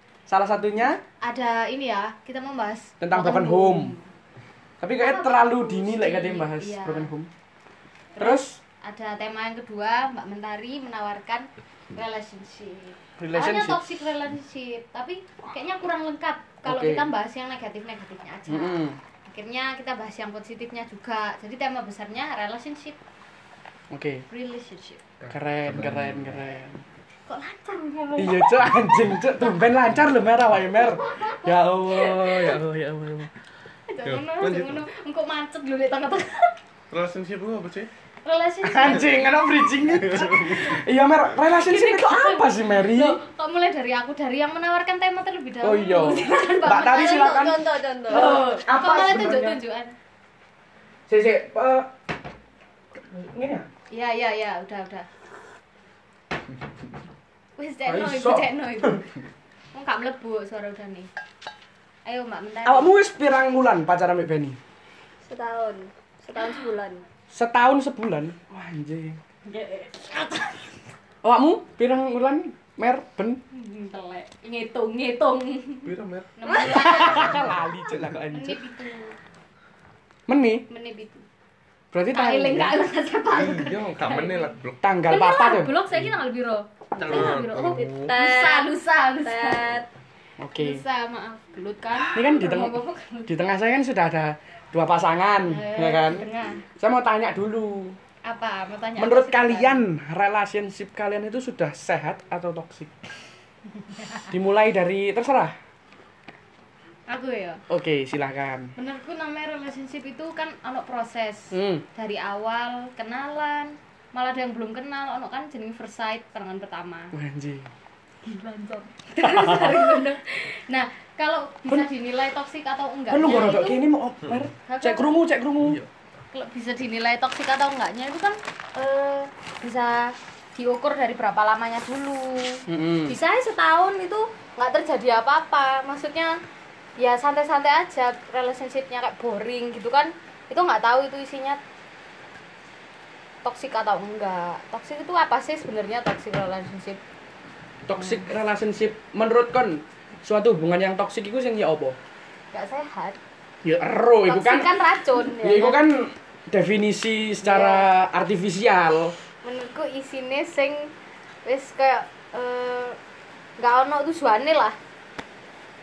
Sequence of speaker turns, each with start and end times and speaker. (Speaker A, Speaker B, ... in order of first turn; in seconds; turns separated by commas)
Speaker A: 0.3-1.0, Speaker B: 1.2-4.1, Speaker A: 3.0-4.0, Speaker A: 4.8-7.3, Speaker B: 5.0-7.1, Speaker B: 8.2-23.0, Speaker A: 8.2-8.6, Speaker A: 13.2-13.8, Speaker A: 16.6-17.1, Speaker A: 18.5-19.0, Speaker A: 23.9-24.2, Speaker B: 24.3-25.0, Speaker C: 25.2-26.3, Speaker A: 25.3-26.8, Speaker B: 27.3-28.9, Speaker A: 28.2-33.3, Speaker B: 30.7-32.5, Speaker B: 33.9-36.5, Speaker C: 34.0-34.8, Speaker C: 36.9-37.9, Speaker B: 38.2-39.3, Speaker A: 38.6-43.2, Speaker C: 40.1-40.6, Speaker B: 41.5-49.9, Speaker A: 45.6-49.6, Speaker D: 46.0-48.4, Speaker A: 51.1-51.9, Speaker A: 53.0-53.7, Speaker B: 53.9-55.1, Speaker B: 57.6-59.0, Speaker A: 57.9-59.0, Speaker B: 59.7-61.1, Speaker B: 62.0-62.9, Speaker A: 62.6-64.6, Speaker D: 65.2-67.0, Speaker A: 67.3-69.2, Speaker B: 69.5-70.8, Speaker A: 71.2-73.4, Speaker B: 73.5-77.7, Speaker C: 75.8-76.3, Speaker D: 76.5-77.3, Speaker A: 76.7-78.6, Speaker B: 78.3-79.2, Speaker A: 80.3-80.7, Speaker B: 80.7-81.2, Speaker A: 81.9-82.8, Speaker B: 82.1-84.5, Speaker C: 83.3-84.8, Speaker A: 84.8-85.8, Speaker B: 85.1-89.8, Speaker C: 87.0-88.1, Speaker D: 87.8-89.9, Speaker A: 90.4-90.8, Speaker B: 90.6-93.3, Speaker A: 92.1-96.3, Speaker B: 95.5-96.7, Speaker A: 96.8-98.0, Speaker B: 98.2-99.9, Speaker A: 99.0-103.0, Speaker B: 104.0-104.3, Speaker A: 104.3-105.6, Speaker B: 107.1-107.6, Speaker A: 107.7-108.7, Speaker B: 108.8-117.2, Speaker A: 111.5-111.8, Speaker A: 117.1-117.7, Speaker B: 118.2-123.8, Speaker A: 119.2-119.8, Speaker A: 123.1-125.8, Speaker B: 124.7-125.1, Speaker B: 126.3-136.4, Speaker A: 132.7-133.2, Speaker B: 137.0-141.6, Speaker B: 143.4-147.0, Speaker A: 147.9-152.0, Speaker B: 148.0-148.2, Speaker B: 152.5-153.2, Speaker A: 153.6-154.7, Speaker B: 154.3-155.8, Speaker A: 155.3-159.2, Speaker B: 157.4-157.9, Speaker B: 159.4-160.9, Speaker B: 161.4-163.0, Speaker B: 163.6-164.8